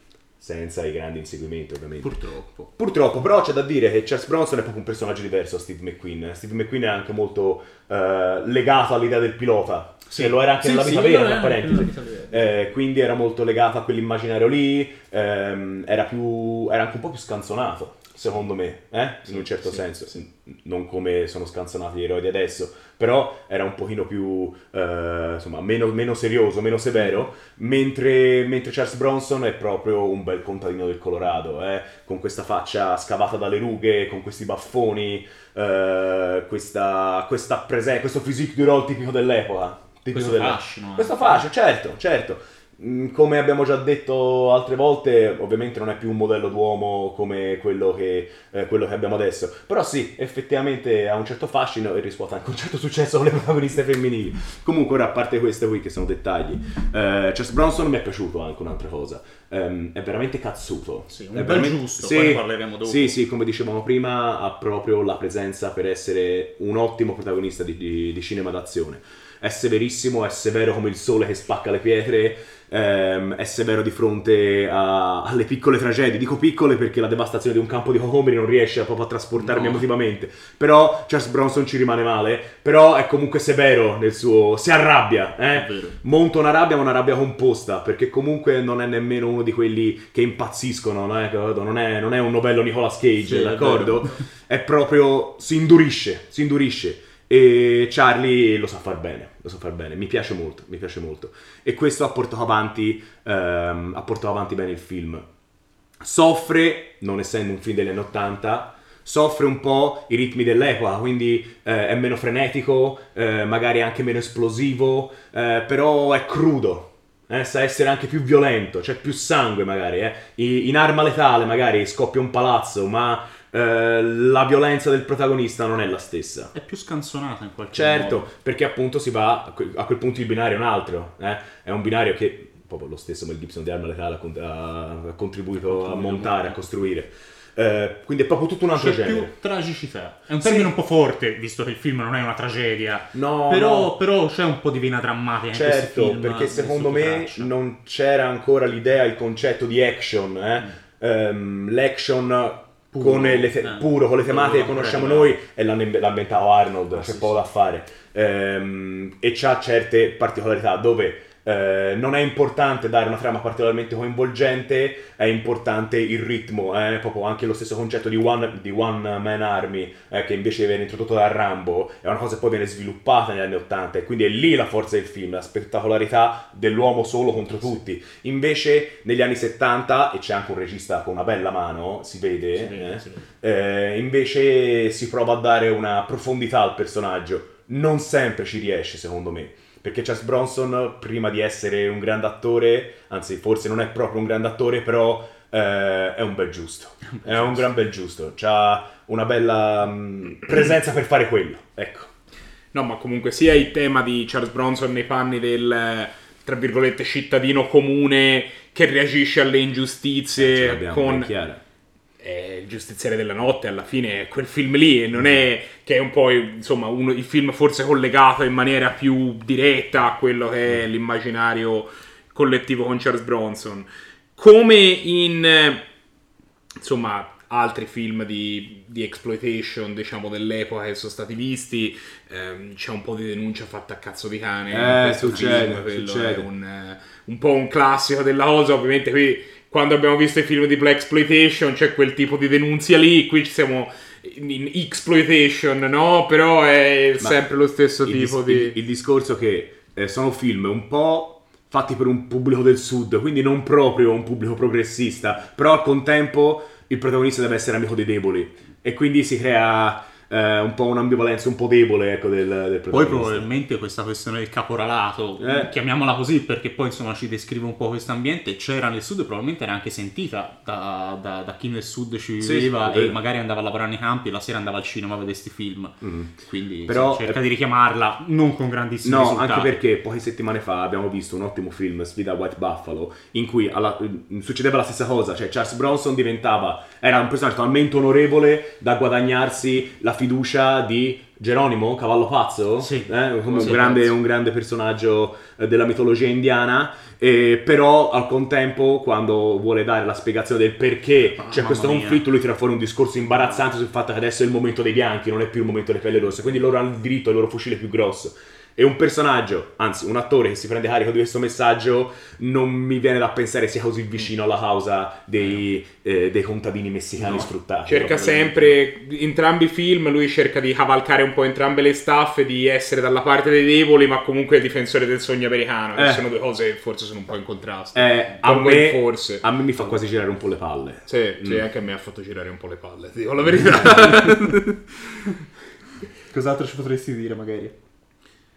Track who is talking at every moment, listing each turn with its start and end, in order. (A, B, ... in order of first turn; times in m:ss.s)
0:00.4-0:02.2 A
0:02.0-0:02.7 B
0:02.8-1:45.2 A
0:10.1-0:12.5 B
0:19.3-0:20.1 B
0:40.1-0:41.5 B
1:01.1-1:03.2 B
1:19.4-1:19.9 B
1:25.5-1:26.0 B
1:33.2-1:34.2 B
1:46.0-2:06.5 A
2:06.5-2:08.3 B
2:07.7-2:19.3 A
2:15.6-2:16.6 B
2:18.8-2:27.5 B
2:20.4-2:20.7 A
2:23.1-2:23.9 A
2:25.5-3:22.1 A
2:32.9-2:35.4 B
2:36.9-2:37.4 B
3:02.6-3:03.3 B
3:17.1-3:17.6 B
3:22.7-3:31.3 C
3:30.4-3:31.6 A
3:32.2-3:45.8 C
3:46.8-4:08.8 C
3:54.7-3:56.5 A
4:08.0-4:23.5 A
4:22.9-4:39.8 B
4:25.4-4:25.7 A
4:32.4-4:33.2 A
4:36.0-4:37.4 A
4:39.0-5:18.7 A
4:52.8-4:54.1 B
5:01.4-5:02.2 B
5:17.2-5:18.6 B
5:17.9-5:29.5 C
5:26.0-5:26.2 A
5:27.9-5:31.7 A
5:31.1-5:34.7 C
5:33.5-5:34.1 A
5:34.0-5:35.3 B
5:36.3-5:37.8 B